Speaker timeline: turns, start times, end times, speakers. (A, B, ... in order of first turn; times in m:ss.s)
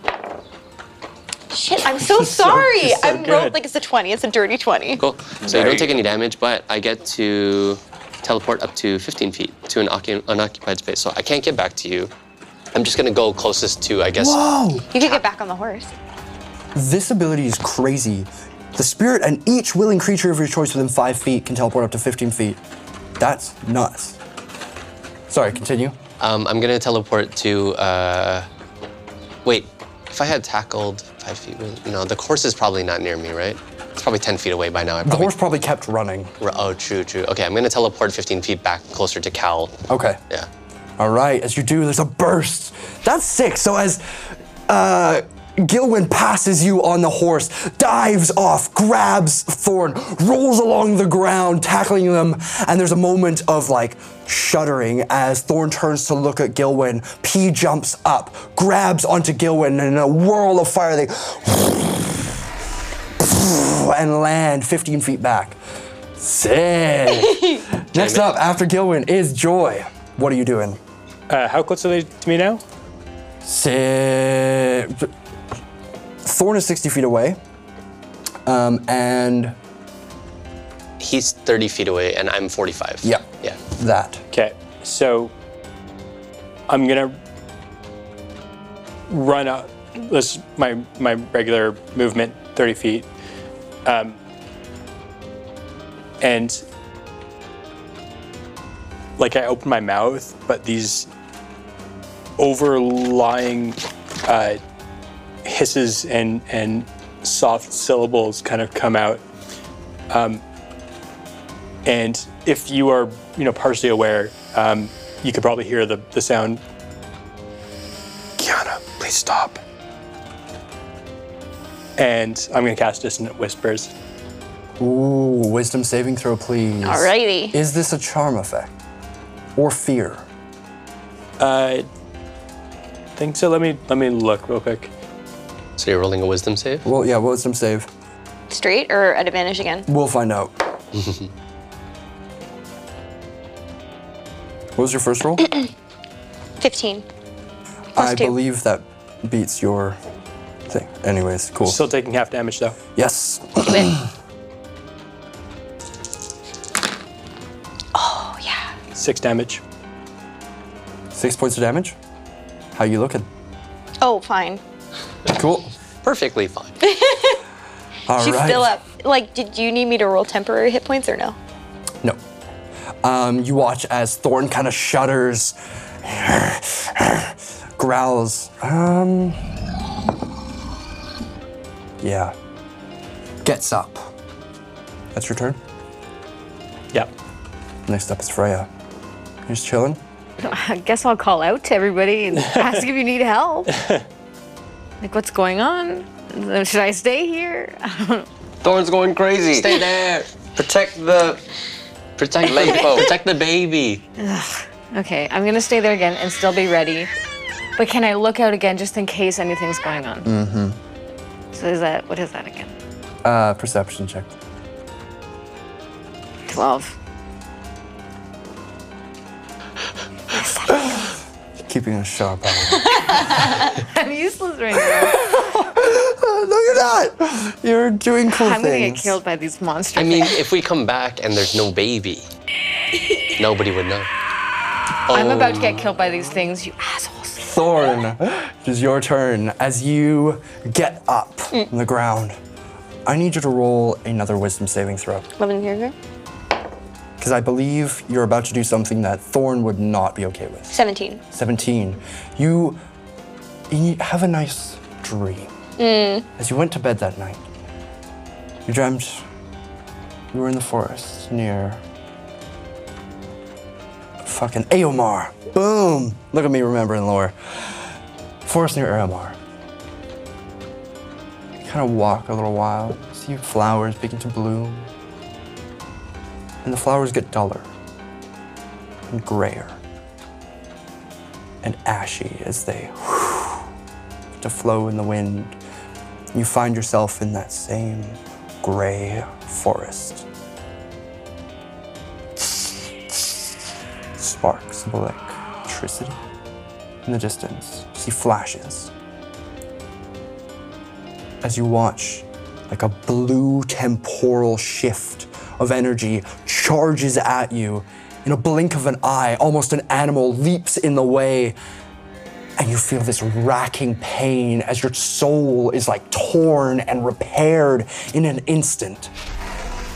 0:01.5-0:05.0 A
0:02.2-0:03.6 B
0:05.0-0:12.1 C
0:05.5-0:05.9 D
0:12.7-0:15.2 C
0:14.2-0:14.8 E
0:14.9-0:15.9 A
0:16.8-0:22.6 E
0:23.2-0:24.2 E
0:25.3-0:26.0 E
0:26.2-0:28.5 C
0:29.4-0:35.3 C
0:35.0-0:36.3 E
0:36.4-0:40.5 C
0:39.9-0:40.2 E
0:41.0-1:02.4 E
1:03.2-1:05.6 E
1:06.2-1:10.8 E
1:08.0-1:08.4 C
1:11.3-1:12.6 B
1:13.4-1:15.1 E
1:16.2-1:17.4 E
1:18.5-1:19.6 E
1:21.0-1:23.6 C
1:23.0-1:24.2 E
1:24.3-1:25.3 B
1:26.7-1:27.2 B
1:29.1-1:33.1 B
1:33.8-1:34.2 B
1:36.2-1:36.6 B
1:39.2-1:41.1 B
1:42.4-1:44.6 B
1:45.4-1:49.2 B
1:50.1-1:50.4 B
1:51.8-1:56.6 B
1:58.4-1:59.6 B
2:02.0-2:03.9 B
2:04.8-2:08.7 E
2:06.8-2:07.6 A
2:09.6-2:10.3 E
2:11.4-2:11.9 B
2:13.2-2:14.9 B
2:15.8-2:16.8 C
2:16.8-2:17.9 E
2:18.5-2:19.9 A
2:19.9-2:20.5 E
2:24.8-2:25.5 E
2:26.6-2:27.0 A
2:28.0-2:28.4 A
2:28.0-2:30.0 E
2:30.7-2:31.8 E
2:31.6-2:32.8 B
2:33.0-2:34.1 E
2:37.9-2:38.6 A
2:38.9-2:39.6 B
2:41.1-2:42.0 E
2:42.7-2:43.3 E
2:44.0-2:44.6 A
2:45.3-2:45.7 E
2:46.0-2:46.8 C
2:46.8-2:47.4 A
2:48.1-2:48.7 E
2:48.2-2:51.4 A
2:53.0-2:59.6 E
3:02.0-3:02.3 E
3:03.4-3:04.1 E
3:05.1-3:05.6 E
3:07.9-3:08.7 E
3:09.5-3:10.0 E
3:10.4-3:13.7 F
3:13.8-3:14.0 B
3:15.0-3:18.3 F
3:18.6-3:19.8 D
3:19.5-3:20.3 C
3:20.5-3:21.4 D
3:22.2-3:24.0 C
3:22.4-3:23.1 D
3:24.2-3:27.1 F
3:27.8-3:30.3 F
3:30.2-3:30.8 E
3:31.5-3:32.7 F
3:33.2-3:34.3 E
3:36.5-3:37.0 F
3:40.3-3:41.0 F
3:41.6-3:43.4 E
3:43.4-3:45.4 F
3:44.8-3:49.2 E
3:48.3-3:50.4 F
3:50.0-3:52.3 C
3:53.3-3:54.1 C
3:55.1-3:55.9 C
3:55.1-3:57.5 F
3:57.4-4:02.4 E
4:03.1-4:05.3 E
4:05.4-4:05.9 A
4:07.2-4:10.7 E
4:10.7-4:11.2 A
4:11.3-4:12.8 E
4:13.7-4:15.5 E
4:15.8-4:16.3 A
4:16.4-4:17.4 E
4:18.7-4:19.2 E
4:20.3-4:21.8 E
4:24.2-4:27.9 E
4:28.4-4:29.4 E
4:31.6-4:34.9 E
4:36.6-4:37.7 E
4:39.1-4:39.8 E
4:41.6-4:43.7 E
4:44.4-4:45.6 E
4:46.3-4:50.3 E
4:52.4-4:53.4 E
4:54.2-4:56.2 E
4:57.0-4:58.9 E
5:01.4-5:11.6 E
5:12.6-5:19.1 E